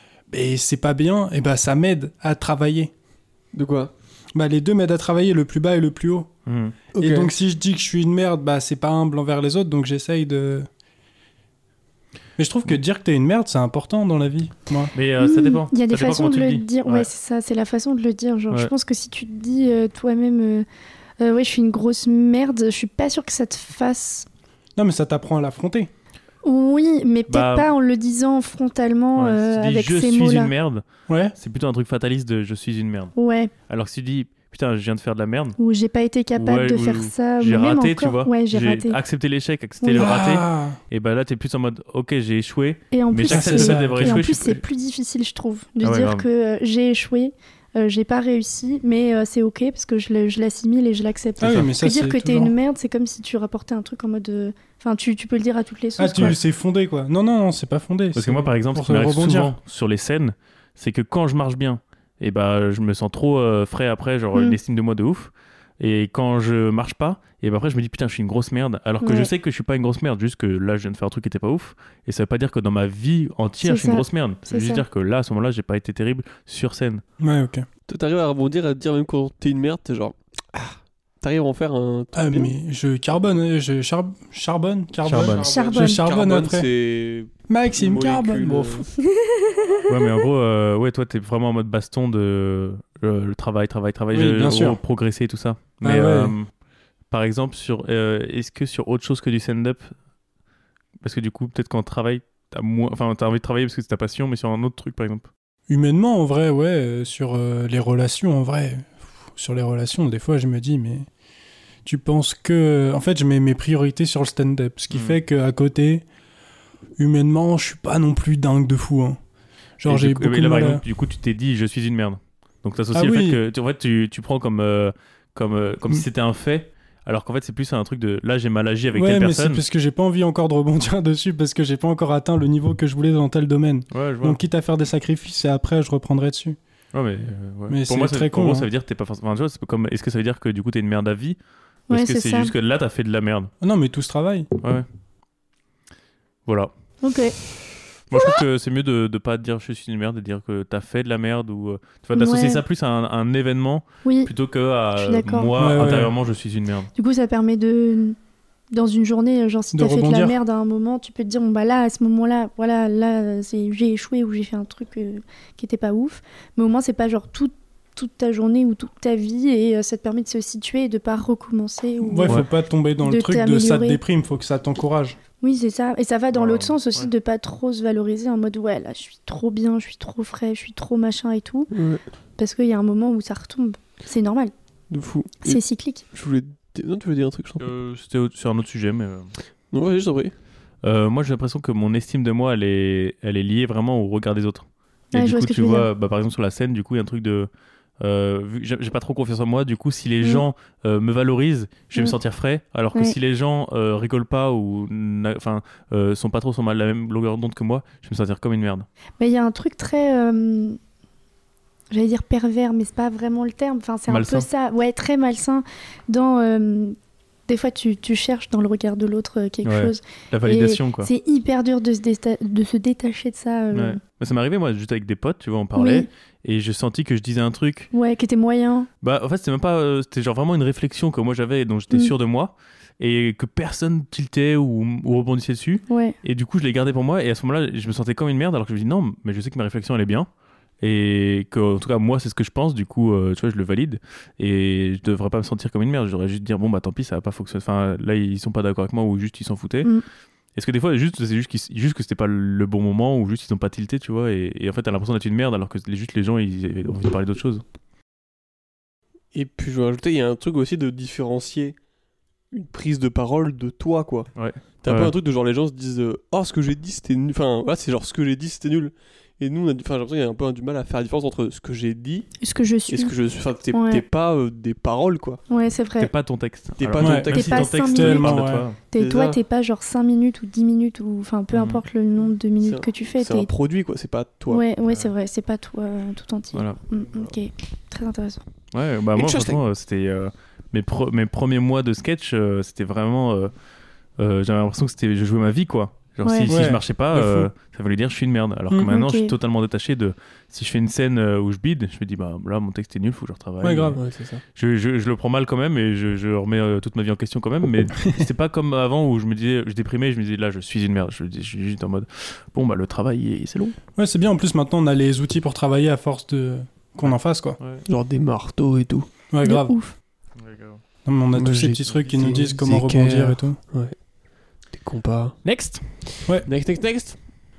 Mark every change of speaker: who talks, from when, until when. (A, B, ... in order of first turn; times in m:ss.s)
0:00.3-0:02.9 A
0:03.5-0:03.9 B
0:04.4-0:06.3 A
0:06.5-0:06.8 C
0:06.9-0:07.3 B
0:07.0-0:10.7 A
0:12.4-0:14.9 A
0:14.9-0:17.1 C
0:15.2-0:20.7 D
0:21.2-0:24.3 D
0:24.8-0:25.9 A
0:26.4-0:30.5 D
0:27.3-0:27.7 C
0:29.2-0:30.8 C
0:31.1-0:31.4 A
0:31.4-0:33.1 C
0:33.2-0:33.5 D
0:33.7-0:35.6 C
0:35.6-0:39.0 D
0:36.4-0:44.6 C
0:39.8-0:40.2 D
0:39.9-0:40.8 A
0:42.9-0:56.4 D
0:43.3-0:44.2 A
0:45.8-0:46.3 C
0:51.4-0:52.6 A
0:56.0-0:59.6 A
0:58.2-1:17.0 C
1:09.0-1:09.3 D
1:13.6-1:14.8 D
1:17.2-1:17.7 A
1:17.9-1:22.5 B
1:22.2-1:26.7 A
1:25.0-1:25.5 C
1:25.1-1:28.9 B
1:25.4-1:26.0 D
1:27.5-1:28.9 A
1:29.0-1:30.2 D
1:29.9-1:36.5 C
1:34.1-1:34.8 A
1:35.8-1:36.4 A
1:37.1-1:39.9 C
1:41.0-1:45.3 C
1:45.7-1:51.1 A
1:51.8-1:56.0 A
1:54.9-1:55.2 C
1:57.0-1:59.2 A
1:59.8-2:00.8 A
1:59.9-2:09.6 C
2:02.9-2:03.4 A
2:08.9-2:16.6 A
2:13.9-2:14.4 C
2:16.9-2:21.4 C
2:17.7-2:18.7 A
2:21.9-2:22.5 D
2:21.9-2:23.5 C
2:23.6-2:24.5 A
2:24.6-2:24.9 C
2:26.5-2:26.7 C
2:27.0-2:27.4 D
2:28.1-2:36.9 C
2:28.1-2:28.4 D
2:32.2-2:32.6 D
2:34.0-2:34.3 D
2:35.0-2:35.5 D
2:35.6-2:36.2 A
2:37.0-2:38.2 D
2:38.7-2:52.4 D
2:39.7-2:40.4 A
2:52.0-2:55.2 A
2:53.0-2:54.0 D
2:55.4-3:01.7 D
2:56.3-2:57.1 C
3:01.7-3:02.0 B
3:02.4-3:04.5 D
3:04.9-3:07.7 B
3:05.4-3:06.0 D
3:07.6-3:09.3 C
3:09.7-3:10.3 B
3:10.8-3:17.5 C
3:15.1-3:15.9 D
3:18.0-3:28.9 C
3:29.2-3:30.8 D
3:31.9-3:37.0 D
3:34.1-3:34.5 C
3:37.5-3:44.0 D
3:39.6-3:41.1 C
3:43.7-3:47.9 C
3:45.8-3:46.1 D
3:47.9-3:48.9 D
3:49.0-4:00.3 C
3:55.9-3:56.2 D
4:00.8-4:09.9 C
4:10.6-4:17.6 C
4:19.3-4:21.8 B
4:22.5-4:24.3 B
4:24.4-4:25.1 C
4:24.8-4:32.3 B
4:32.4-4:33.1 D
4:32.9-4:35.4 B
4:33.7-4:34.0 D
4:35.5-4:36.1 D
4:36.0-4:38.8 C
4:36.8-4:37.7 B
4:37.0-4:38.7 A
4:37.3-4:43.5 D
4:39.0-4:39.4 B
4:41.5-4:41.8 C
4:42.6-4:44.6 B
4:44.5-4:48.4 D
4:46.5-4:46.8 C
4:48.7-4:53.5 C
4:49.2-4:49.6 B
4:54.2-5:04.0 C
4:56.2-4:56.5 D
4:56.5-4:57.5 A
4:58.8-4:59.3 D
5:03.6-5:04.0 A
5:04.0-5:04.4 B
5:04.6-5:13.8 C
5:14.0-5:17.6 A
5:17.0-5:17.8 C
5:17.9-5:19.1 B
5:19.3-5:19.8 A
5:19.4-5:20.0 D
5:20.4-5:20.8 C
5:21.0-5:23.6 A
5:21.4-5:24.0 B
5:24.7-5:25.4 B
5:25.4-5:25.8 C
5:26.1-5:27.2 B